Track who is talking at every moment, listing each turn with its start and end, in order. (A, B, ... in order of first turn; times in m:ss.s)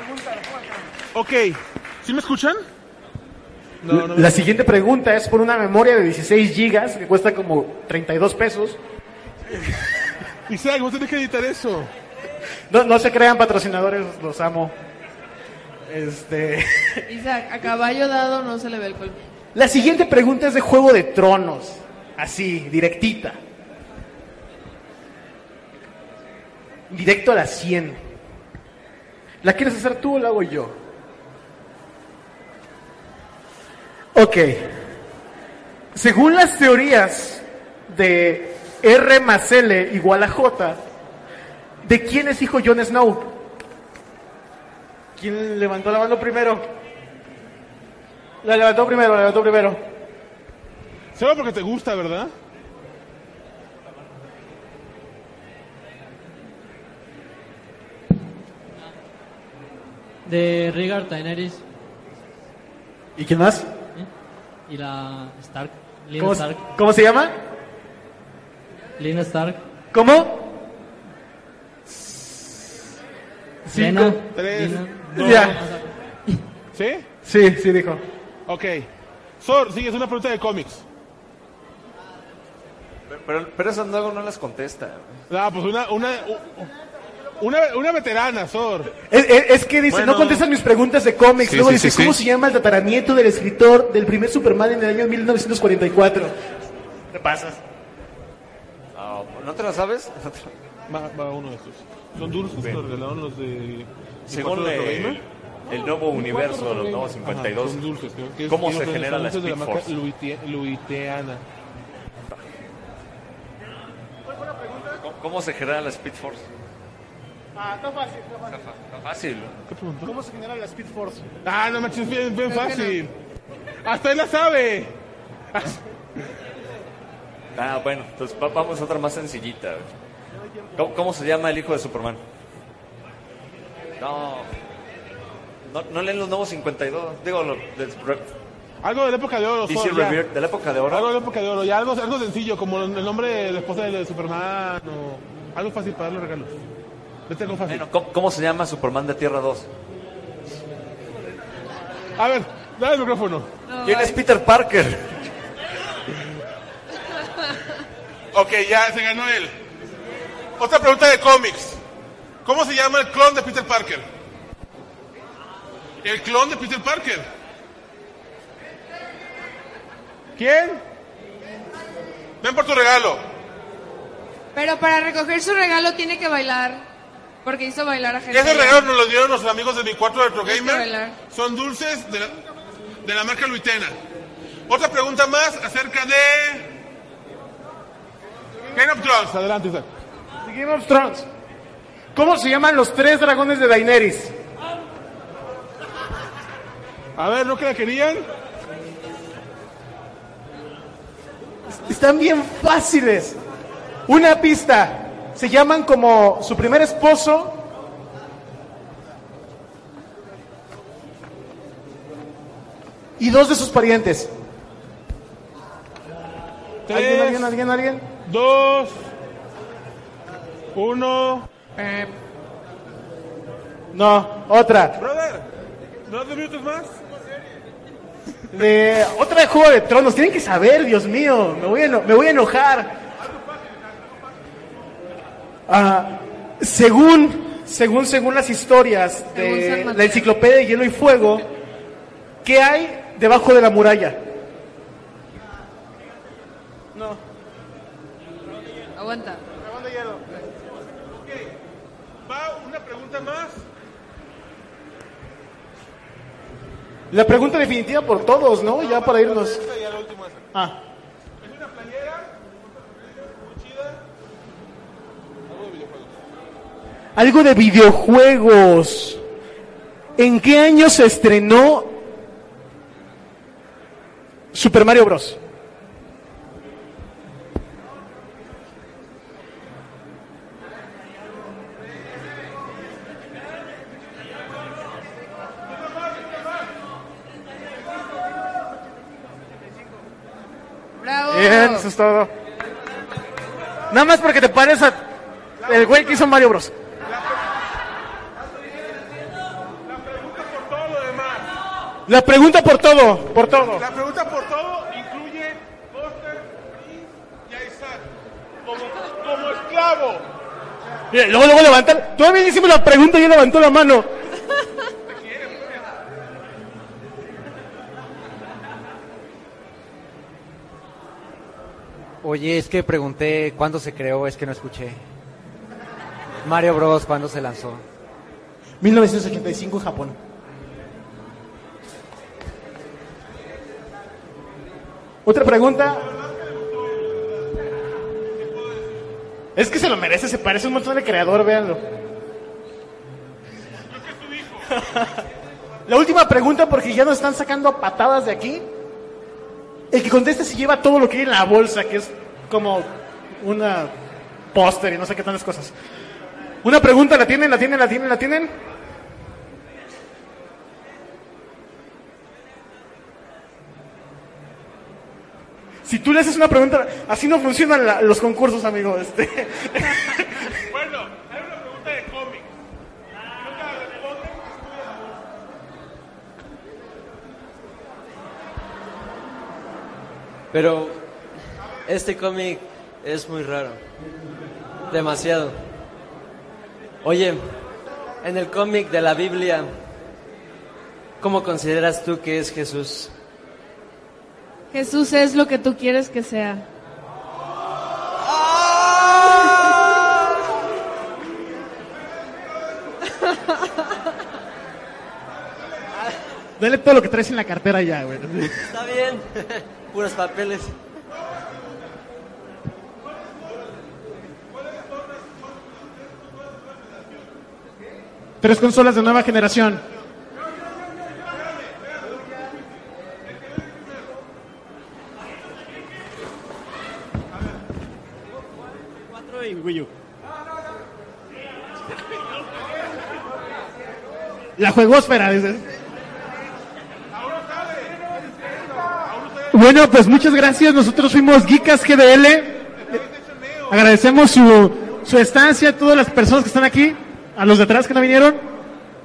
0:01.1-0:02.6 A
0:03.8-0:04.4 A
0:03.9-0:08.8 B
0:10.5-0:11.9 A
0:12.7-0:14.7 B
0:15.9-0:17.0 B
0:17.1-0:19.2 C
0:19.5-0:23.4 B
0:26.9-0:28.0 B
0:29.4-0:30.7 B
0:34.1-0:34.8 B
0:35.9-0:40.8 B
0:41.8-0:43.4 B
0:45.2-0:46.6 B
0:48.4-0:49.8 B
0:51.1-0:52.3 A
1:00.2-1:01.6 D
1:03.2-1:03.7 B
1:04.7-1:06.6 D
1:06.2-1:07.3 B
1:09.0-1:09.6 D
1:09.9-1:10.5 B
1:11.9-1:12.6 B
1:13.7-1:14.2 B
1:13.7-1:15.8 D
1:14.3-1:15.6 A
1:15.2-1:15.6 B
1:16.7-1:17.1 A
1:17.2-1:18.0 B
1:18.5-1:18.9 A
1:19.4-1:20.8 A
1:23.1-1:25.2 E
1:25.3-1:26.7 A
1:27.4-1:28.9 A
1:29.1-1:36.3 B
1:29.9-1:30.4 A
1:31.4-1:32.2 A
1:37.1-1:37.6 B
1:38.9-1:40.5 E
1:40.9-1:45.2 A
1:44.3-1:47.8 E
1:46.5-1:46.8 B
1:47.2-1:51.4 A
1:48.4-1:49.9 E
1:54.4-1:54.8 B
1:54.9-1:56.5 E
1:57.5-1:58.6 B
1:58.5-1:59.6 E
1:59.7-2:00.1 A
2:00.0-2:01.2 B
2:01.4-2:03.1 A
2:03.8-2:05.0 A
2:05.5-2:06.2 A
2:07.5-2:09.9 E
2:10.8-2:12.2 E
2:14.0-2:14.5 E
2:15.7-2:18.3 E
2:18.8-2:20.2 A
2:19.6-2:21.1 E
2:20.9-2:26.6 A
2:27.3-2:27.8 A
2:27.6-2:29.7 E
2:32.2-2:33.5 A
2:33.7-2:34.2 C
2:33.8-2:35.2 E
2:38.3-2:39.5 A
2:40.6-2:41.8 A
2:42.4-2:44.0 A
2:46.0-2:47.2 A
2:50.4-2:50.8 A
2:52.4-2:53.2 A
2:54.5-2:56.8 C
2:57.4-2:58.8 C
2:58.3-3:02.4 A
3:00.4-3:01.2 C
3:03.0-3:04.0 A
3:04.7-3:06.7 A
3:08.7-3:09.9 A
3:10.4-3:11.3 B
3:12.1-3:14.3 B
3:17.2-3:18.2 A
3:21.7-3:23.4 B
3:24.1-3:27.6 B
3:33.2-3:34.3 B
3:36.9-3:37.5 A
3:36.9-3:38.0 B
3:38.2-3:39.0 A
3:40.7-3:41.5 A
3:41.8-3:42.1 C
3:43.9-3:45.0 B
3:45.0-3:45.5 A
3:46.0-3:47.0 A
3:48.5-3:53.0 B
3:53.3-3:54.0 A
3:55.7-4:01.5 B
3:59.3-4:00.2 C
4:02.4-4:04.2 B
4:06.9-4:07.2 B
4:08.9-4:09.4 C
4:09.6-4:10.4 B
4:11.1-4:11.6 A
4:12.2-4:13.6 A
4:17.1-4:19.6 B
4:18.8-4:20.4 A
4:20.5-4:20.8 B
4:21.4-4:24.0 A
4:25.4-4:26.2 A
4:27.2-4:29.2 B
4:30.2-4:31.9 B
4:34.5-4:35.4 B
4:51.0-4:51.8 C
4:51.3-4:52.3 B
4:53.9-4:55.0 B
4:55.6-4:56.2 A
4:55.6-4:56.7 B
4:57.1-4:57.4 A
4:59.8-5:01.6 A
5:02.1-5:03.8 B
5:03.6-5:08.1 A
5:08.6-5:10.2 A
5:11.1-5:14.1 B
5:15.1-5:15.8 A
5:22.2-5:25.0 F
5:26.4-5:27.8 F
5:28.8-5:30.2 B
5:35.2-5:36.1 B
5:39.5-5:41.8 B
5:43.9-5:44.7 A
5:44.7-5:45.2 B
5:45.8-5:48.6 B
5:49.9-5:53.9 B
5:54.5-5:55.7 B
5:56.6-5:58.5 B
6:05.8-6:10.5 B
6:10.7-6:12.5 A
6:13.4-6:14.6 A
6:20.5-6:21.1 G
6:21.8-6:23.8 G
6:24.9-6:25.6 G
6:27.0-6:27.7 G
6:28.2-6:29.7 G
6:31.2-6:33.1 G
6:34.7-6:36.6 C
6:43.1-6:43.7 C
6:46.6-6:48.7 B
6:48.7-6:50.8 G
6:58.4-6:59.8 B
7:01.3-7:02.2 A
7:09.3-7:09.9 B
7:14.6-7:15.7 B
7:17.1-7:19.5 A
7:19.5-7:22.7 B
7:22.8-7:23.8 A
7:23.7-7:28.4 B